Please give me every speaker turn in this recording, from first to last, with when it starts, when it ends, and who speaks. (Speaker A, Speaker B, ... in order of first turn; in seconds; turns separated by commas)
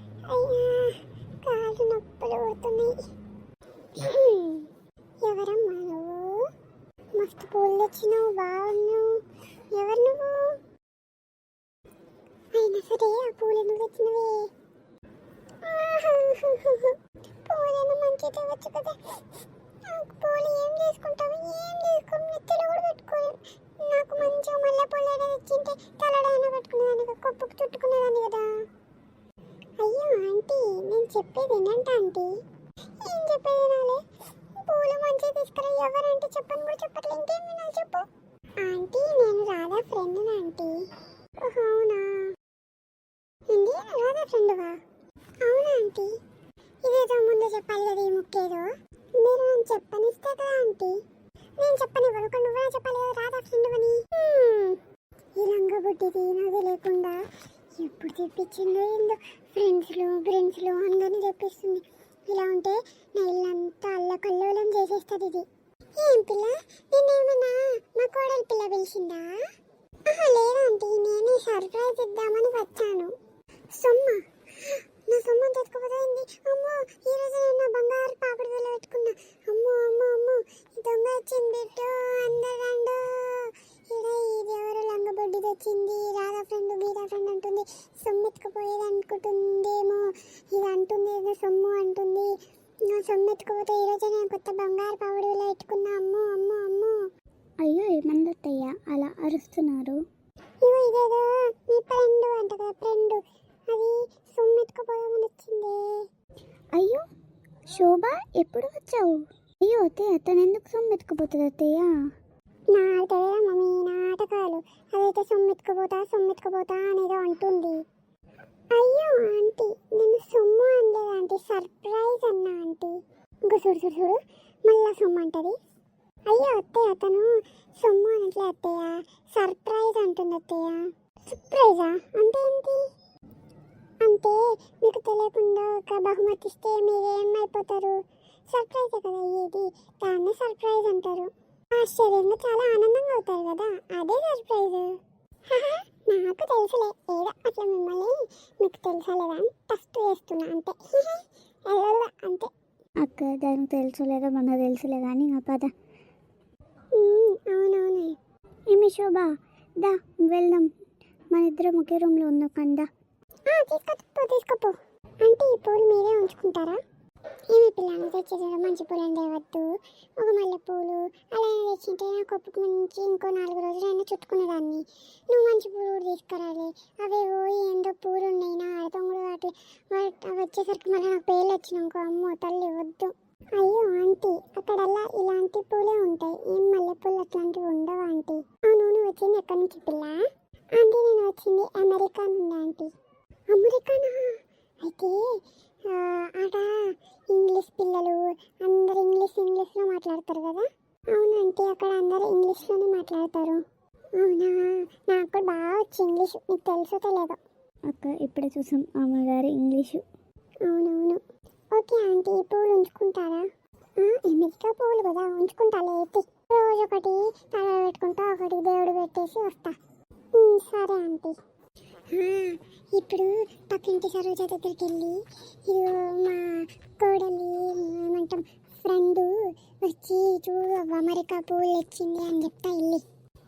Speaker A: 0.3-3.0, Speaker A: 3.9-4.7, Speaker A: 5.2-6.5, Speaker A: 7.1-10.6, Speaker A: 12.5-14.5, Speaker A: 15.6-19.0, Speaker A: 19.8-28.7, Speaker A: 29.8-32.3, Speaker A: 33.0-34.0, Speaker A: 34.6-38.1, Speaker A: 38.6-40.9, Speaker A: 41.4-42.4, Speaker A: 43.5-44.8, Speaker A: 45.4-46.1, Speaker A: 46.8-51.0, Speaker A: 51.6-54.8, Speaker A: 55.4-57.2, Speaker A: 57.8-65.5, Speaker A: 66.0-69.4, Speaker A: 70.1-73.2, Speaker A: 73.7-97.1, Speaker B: 97.6-100.0, Speaker A: 100.6-106.0, Speaker B: 106.7-107.0, Speaker B: 107.7-112.0, Speaker A: 112.7-117.8, Speaker A: 118.7-125.6, Speaker A: 126.3-132.9, Speaker A: 134.0-152.5, Speaker B: 153.0-155.7, Speaker A: 156.9-158.2, Speaker B: 158.7-160.7, Speaker B: 161.3-162.9, Speaker A: 163.5-166.8, Speaker A: 167.5-192.9, Speaker A: 193.5-195.3, Speaker A: 195.9-203.6, Speaker A: 204.2-207.4, Speaker B: 207.9-210.1, Speaker A: 210.6-219.8, Speaker A: 220.3-221.3, Speaker A: 222.1-233.1